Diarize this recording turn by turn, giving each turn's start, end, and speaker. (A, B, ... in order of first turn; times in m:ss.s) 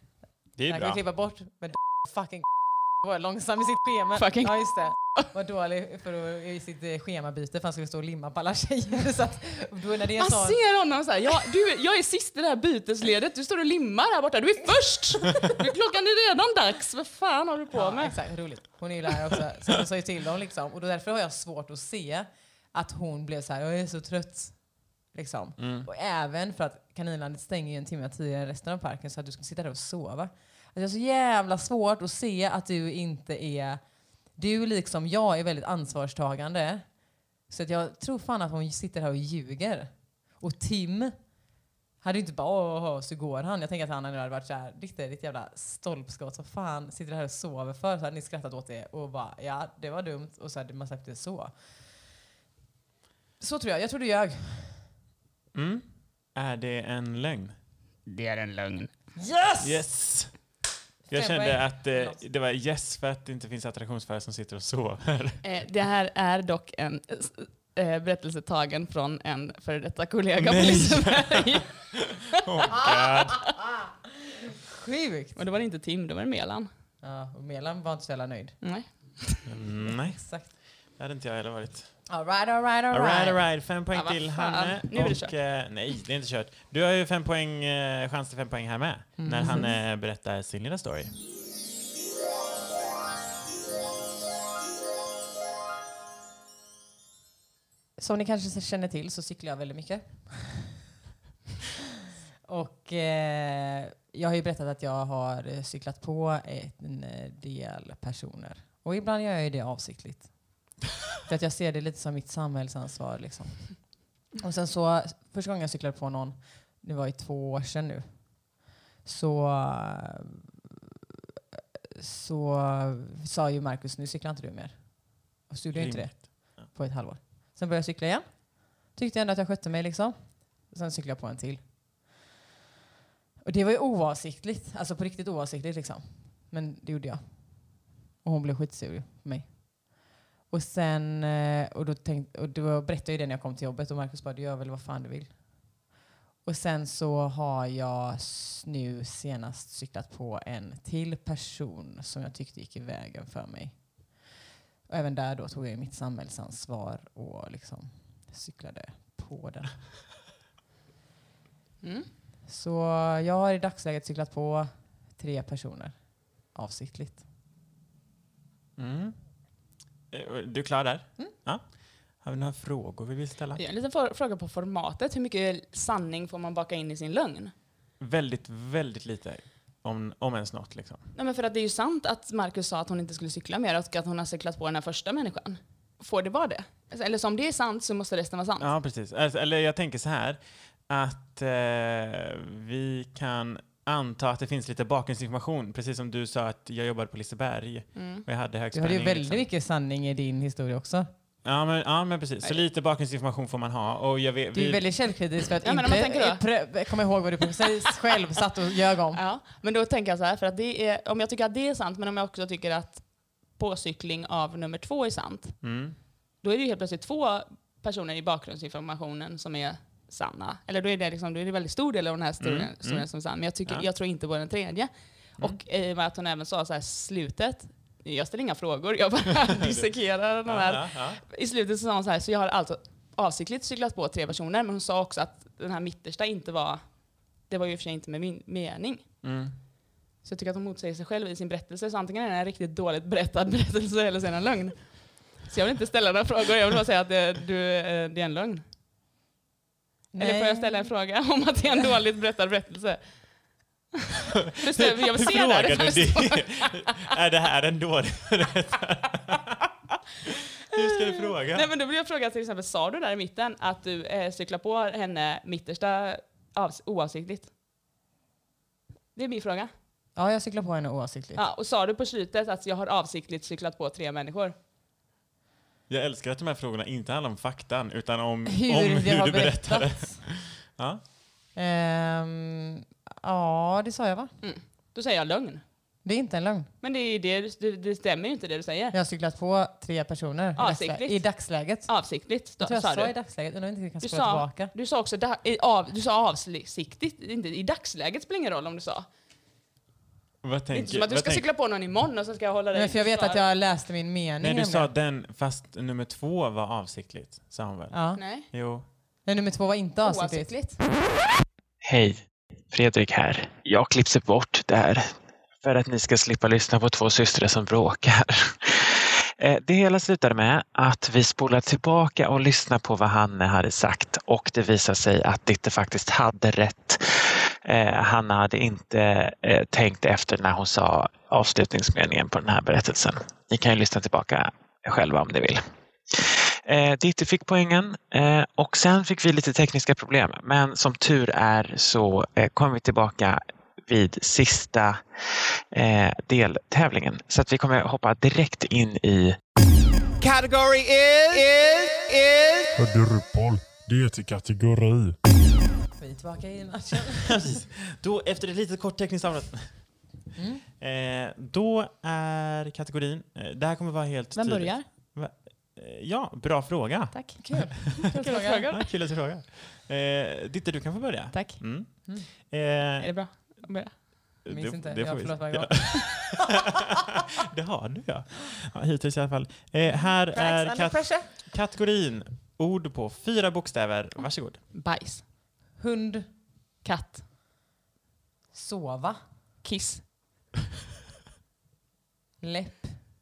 0:00.6-0:01.0 A
0:00.7-0:10.6 B
0:04.2-0:05.2 C
0:10.2-0:18.6 C
0:17.7-0:41.4 B
0:25.6-0:25.9 A
0:42.0-0:51.5 B
0:53.4-0:54.9 B
0:55.5-0:57.6 A
0:58.0-0:59.0 C
0:59.2-0:59.9 B
0:59.6-1:00.5 A
1:01.1-1:02.2 B
1:01.1-1:05.4 A
1:05.4-1:12.6 C
1:10.4-1:13.5 A
1:12.7-1:13.9 B
1:14.7-1:15.4 B
1:15.3-1:16.7 C
1:17.0-1:18.6 B
1:18.6-1:19.4 C
1:19.5-1:22.1 A
1:20.1-1:20.5 B
1:22.1-1:23.4 B
1:22.9-1:31.1 A
1:23.9-1:25.8 C
1:29.2-1:29.7 C
1:29.2-1:29.7 B
1:38.0-1:40.8 B
1:42.4-1:50.7 B
1:51.2-2:00.4 B
2:01.9-2:11.7 B
2:05.7-2:06.7 A
2:13.4-2:25.8 B
2:26.4-2:34.3 B
2:34.9-2:39.8 B
2:41.8-2:42.1 C
2:42.4-2:47.2 B
2:48.8-2:49.2 A
2:50.1-2:53.6 A
2:53.6-2:57.5 C
2:58.0-3:01.0 A
3:01.1-3:08.7 C
3:08.6-3:19.4 A
3:17.9-3:18.2 C
3:18.7-3:21.1 B
3:21.4-3:24.9 A
3:24.5-3:29.2 B
3:25.6-3:26.7 C
3:29.1-3:35.6 C
3:35.6-3:36.0 A
3:36.4-3:59.1 C
3:42.4-3:43.1 A
3:50.4-3:51.2 A
3:59.2-3:59.5 A
4:00.2-4:08.6 C
4:10.1-4:10.9 B
4:10.2-4:13.7 C
4:14.5-4:19.6 A
4:14.6-4:17.0 C
4:20.7-4:21.7 A
4:20.7-4:27.5 C
4:29.1-4:29.7 C
4:30.2-4:31.4 B
4:31.3-4:34.5 C
4:35.9-4:41.0 A
4:38.4-4:40.3 B
4:41.5-4:44.3 B
4:44.4-4:45.6 C
4:46.0-4:46.7 B
4:46.8-4:48.9 C
4:48.9-4:54.7 B
4:50.6-4:53.1 C
4:54.0-4:59.1 C
5:00.4-5:01.4 A
5:00.7-5:03.4 C
5:02.7-5:04.9 B
5:04.4-5:08.8 A
5:07.9-5:08.5 B
5:08.2-5:08.5 C
5:09.2-5:10.5 B
5:10.0-5:10.8 C
5:11.8-5:35.6 D
5:36.1-5:45.0 D
5:45.7-5:49.4 D
5:50.2-5:52.9 E
5:52.8-5:55.2 F
5:55.9-5:57.4 B
5:57.2-6:00.0 A
6:00.4-6:00.6 B
6:00.8-6:08.0 A
6:04.3-6:04.9 C
6:07.1-6:08.9 C
6:07.4-6:08.7 B
6:08.7-6:13.2 A
6:11.3-6:11.6 C
6:13.0-6:14.0 C
6:14.4-6:16.6 A
6:14.5-6:16.3 B
6:17.4-6:24.6 A
6:19.9-6:21.3 B
6:24.7-6:25.2 C
6:25.8-6:26.3 B
6:26.8-6:27.2 C
6:28.5-6:29.2 B
6:29.6-6:30.2 C
6:32.4-6:33.0 B